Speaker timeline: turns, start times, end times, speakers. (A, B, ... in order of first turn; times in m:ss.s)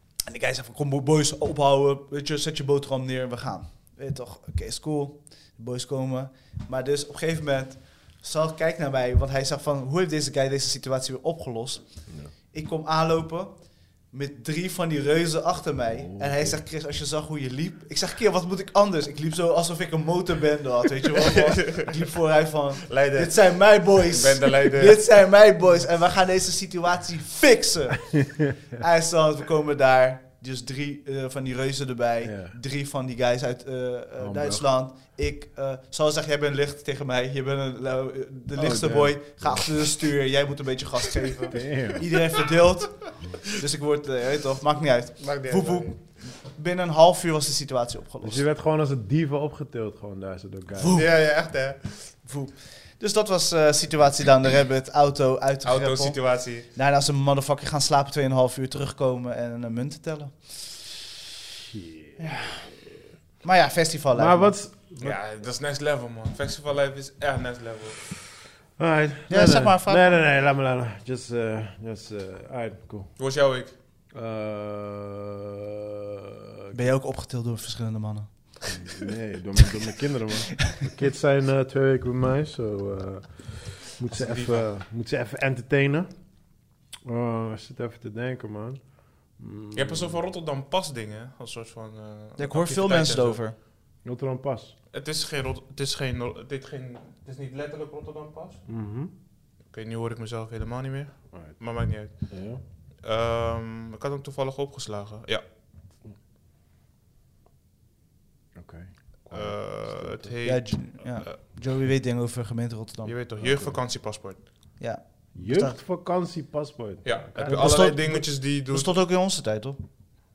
0:00.2-0:48.4 A
0:12.1-0:12.3 B
0:16.0-0:16.6 B
0:21.4-0:21.9 C
0:22.9-0:25.0 C
0:32.2-0:32.6 B
0:34.2-0:34.7 B
0:38.6-0:39.7 B
0:41.5-0:42.1 B
0:45.2-0:46.0 C
0:48.2-0:51.0 B
0:50.8-0:51.2 A
0:50.9-0:52.1 C
0:52.2-1:00.7 A
0:55.6-0:56.7 C
1:01.7-1:02.6 B
1:02.2-1:02.7 A
1:03.4-1:04.6 A
1:04.1-1:05.2 B
1:05.0-1:08.1 C
1:08.8-1:13.1 B
1:09.3-1:10.2 A
1:13.2-1:13.7 C
1:14.1-1:15.6 B
1:16.7-1:19.0 A
1:18.7-1:26.3 B
1:24.1-1:24.7 C
1:27.0-1:30.2 B
1:29.8-1:33.4 C
1:32.4-1:33.6 A
1:34.0-1:34.8 B
1:34.9-1:38.6 C
1:38.7-1:39.1 B
1:39.7-1:45.4 C
1:41.3-1:41.6 B
1:42.1-1:42.6 B
1:48.6-1:50.3 B
1:49.3-1:51.4 C
1:50.4-1:53.1 A
1:53.0-1:54.5 C
1:53.4-1:53.8 B
1:54.8-1:55.8 A
1:55.4-1:58.2 B
1:57.0-1:58.9 C
1:57.5-1:59.8 A